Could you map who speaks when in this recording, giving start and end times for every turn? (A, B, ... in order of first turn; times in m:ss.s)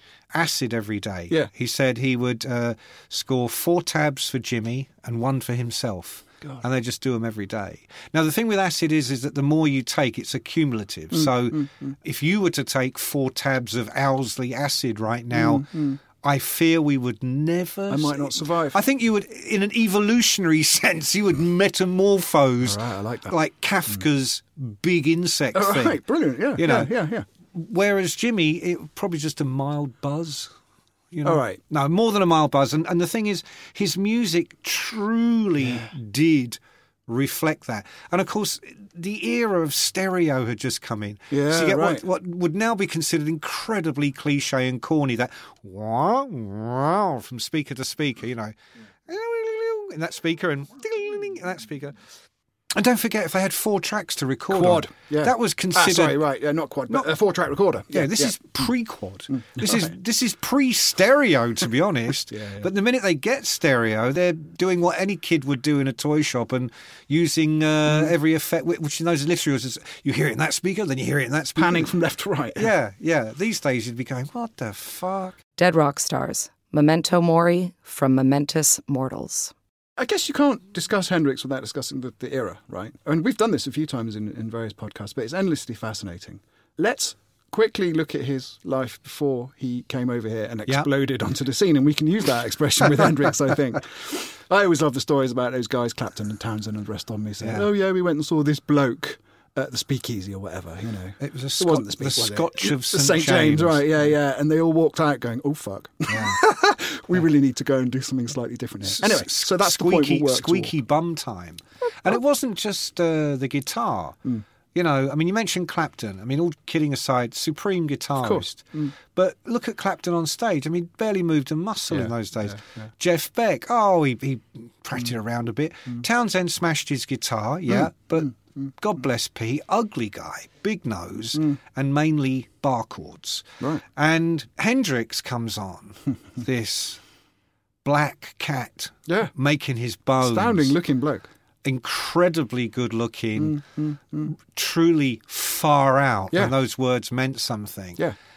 0:00.3-0:26.0 A
0:11.1-0:12.0 B
0:15.3-0:16.0 B
0:17.9-0:18.8 B
0:22.6-0:23.4 B
0:25.5-0:27.3 B
0:26.6-0:26.9 A
0:27.5-0:30.5 A
0:31.1-0:48.5 A
0:31.2-0:31.6 B
0:35.6-0:35.9 B
0:41.3-0:42.0 B
0:49.1-0:52.0 A
0:52.7-0:56.2 A
0:54.5-0:58.4 B
0:57.9-1:11.9 A
0:59.3-0:59.9 B
1:02.3-1:02.7 B
1:11.6-1:12.7 B
1:12.6-1:15.4 A
1:15.6-1:19.5 C
1:20.0-1:50.8 B
1:37.4-1:37.7 A
1:41.2-1:44.1 A
1:46.1-1:46.4 A
1:48.8-1:54.2 A
1:54.7-2:17.0 A
1:58.2-1:59.0 B
2:01.9-2:02.9 B
2:07.7-2:08.7 B
2:17.8-2:20.8 A
2:19.1-2:19.3 B
2:20.2-2:21.3 B
2:21.6-2:23.6 A
2:23.4-2:24.4 B
2:24.3-2:28.0 A